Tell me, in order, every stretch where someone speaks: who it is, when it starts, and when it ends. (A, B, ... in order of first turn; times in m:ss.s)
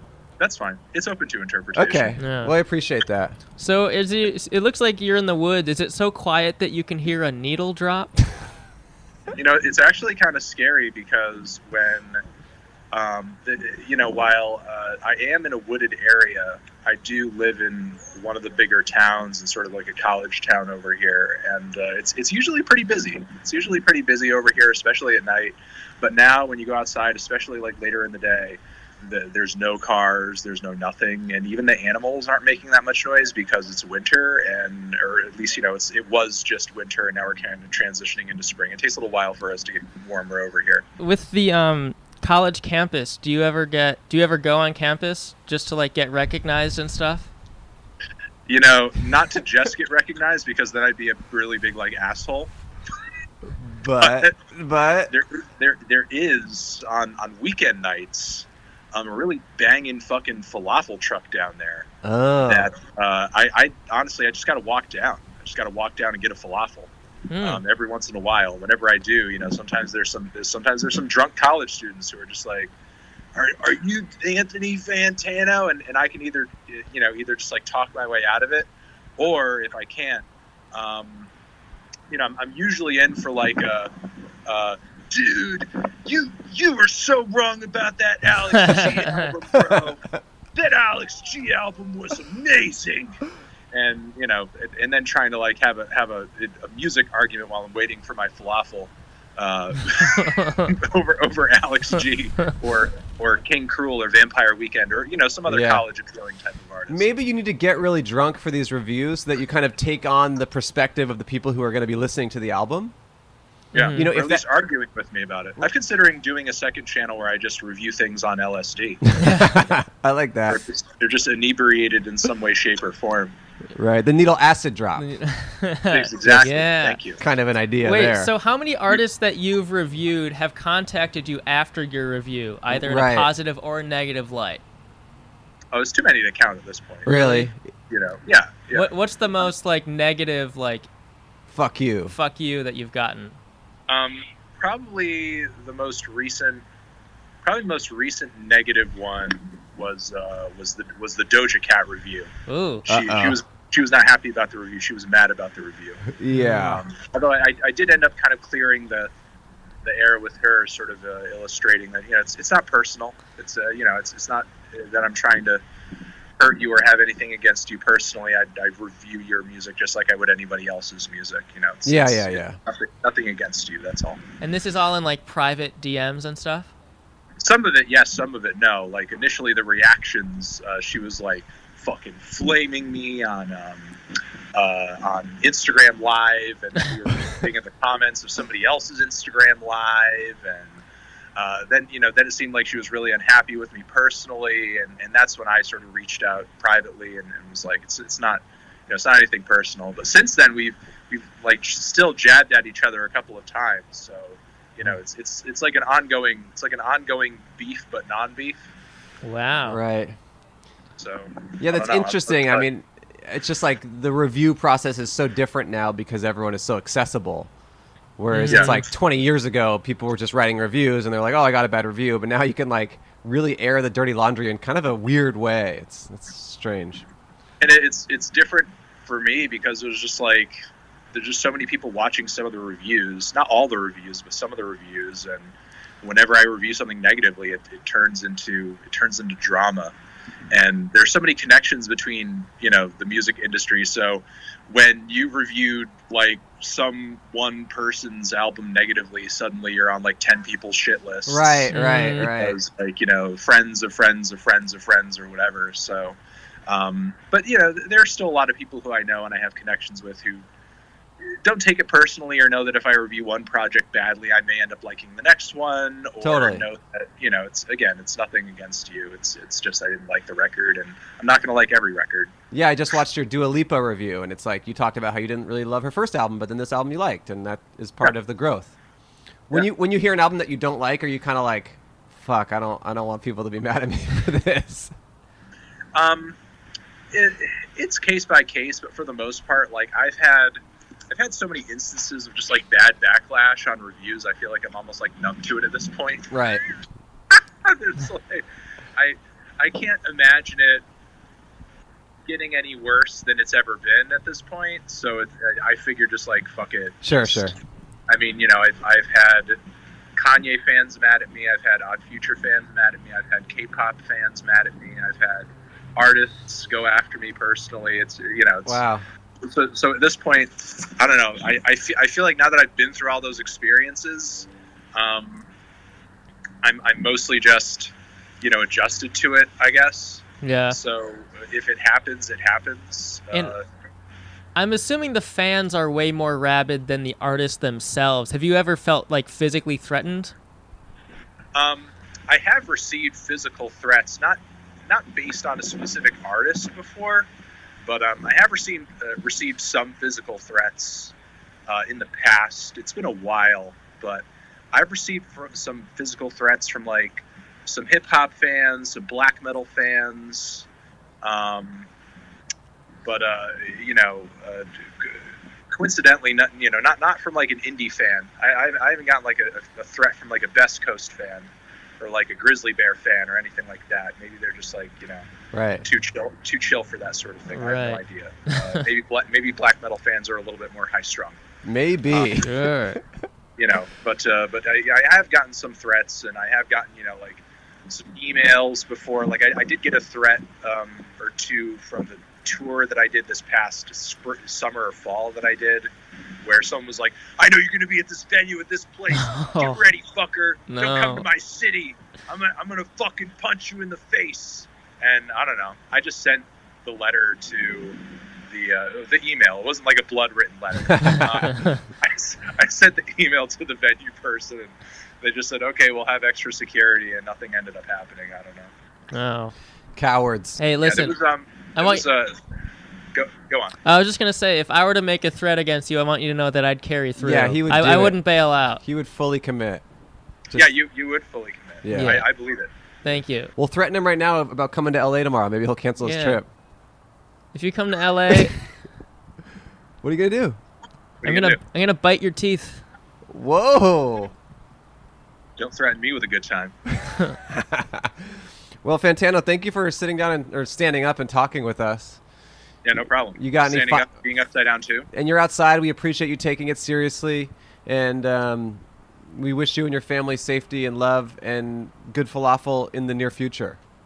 0:00.4-0:02.2 A
0:01.7-0:03.4 B
0:02.2-0:02.6 C
0:03.6-0:08.2 C
0:09.3-0:12.2 A
0:12.9-0:40.8 A
0:41.0-0:47.3 C
0:48.5-0:52.5 A
0:53.5-0:55.1 B
0:54.0-0:54.3 A
0:55.1-1:01.9 A
1:02.0-1:02.7 B
1:02.5-1:06.9 A
1:07.3-1:07.6 C
1:07.4-1:12.7 A
1:13.4-1:21.3 A
1:22.1-1:23.9 A
1:24.5-1:30.0 A
1:28.6-1:29.3 C
1:29.5-1:29.9 B
1:30.6-1:33.2 A
1:33.7-1:47.1 A
1:40.2-1:40.7 C
1:45.5-1:45.8 B
1:46.9-1:53.0 B
1:53.7-1:54.1 C
1:53.7-1:59.0 A
1:54.0-1:54.4 B
1:59.1-2:00.6 B
1:59.2-1:59.6 C
2:00.5-2:03.4 A
2:03.8-2:05.1 B
2:05.0-2:07.0 C
2:05.9-2:07.2 A
2:07.2-2:08.3 B
2:07.8-2:14.6 C
2:12.7-2:13.3 B
2:15.7-2:17.1 A
2:17.1-2:17.6 B
2:17.1-2:17.5 C
2:17.9-2:18.9 A
2:18.7-2:20.9 C
2:21.5-2:22.2 B
2:22.1-2:23.4 C
2:23.9-2:26.6 A
2:27.4-2:32.3 A
2:32.5-2:32.9 C
2:32.9-2:33.4 B
2:32.9-2:39.1 A
2:36.1-2:36.8 B
2:36.3-2:36.7 C
2:39.8-2:45.6 A
2:46.4-2:54.2 A
2:51.9-2:52.6 B
2:54.4-2:56.7 C
2:57.4-3:04.0 A
3:04.6-3:10.8 A
3:11.4-3:28.7 A
3:29.2-3:29.8 C
3:29.6-3:30.2 B
3:31.0-3:32.7 A
3:31.6-3:37.5 B
3:38.2-3:47.1 B
3:38.3-3:38.8 C
3:38.5-3:38.8 A
3:47.6-3:50.6 A
3:51.1-3:59.9 A
4:00.5-4:20.4 A
4:11.3-4:12.6 B
4:11.7-4:12.3 C
4:21.2-4:32.3 A
4:26.2-4:26.6 B
4:32.5-4:38.7 B
4:39.5-4:44.9 B
4:46.0-4:46.4 A
4:47.1-4:50.6 A
4:51.1-4:56.4 A
4:56.3-4:56.6 B
4:57.3-4:58.4 A
4:59.0-5:00.8 A
5:02.3-5:07.5 A
5:07.0-5:07.5 B
5:08.1-5:09.6 A
5:10.2-5:18.8 A
5:18.7-5:19.0 B
5:19.4-5:25.5 A
5:26.6-5:33.6 A
5:30.4-5:30.8 C
5:34.6-5:40.3 C
5:41.6-5:47.3 A
5:47.8-5:51.1 A
5:51.7-6:00.7 A
6:01.2-6:01.9 A
6:03.0-6:15.3 A
6:15.5-6:15.8 B
6:15.8-6:21.4 A
6:17.6-6:18.8 C
6:21.6-6:23.0 B
6:22.4-6:23.0 C
6:23.6-6:35.9 A
6:36.4-6:58.7 A
6:39.2-6:39.8 C
6:40.7-6:41.3 C
6:50.9-6:51.5 B
6:51.5-6:51.8 C
6:59.1-6:59.5 C
7:00.0-7:00.6 B
7:00.6-7:01.2 C
7:00.8-7:02.4 A
7:01.8-7:02.0 C
7:03.1-7:03.8 A
7:03.8-7:08.8 C
7:07.2-7:08.2 B
7:08.8-7:09.8 B
7:10.5-7:12.7 A
7:11.8-7:12.2 B
7:11.9-7:12.2 C
7:13.0-7:13.5 C
7:13.6-7:16.5 B
7:16.0-7:16.4 C
7:17.5-7:18.6 C
7:20.0-7:20.6 B
7:21.2-7:21.6 A
7:21.2-7:22.8 C
7:23.3-7:24.3 B
7:25.6-7:26.8 A
7:27.5-7:32.2 B
7:32.8-7:35.1 A
7:33.4-7:34.1 B
7:35.1-7:43.8 B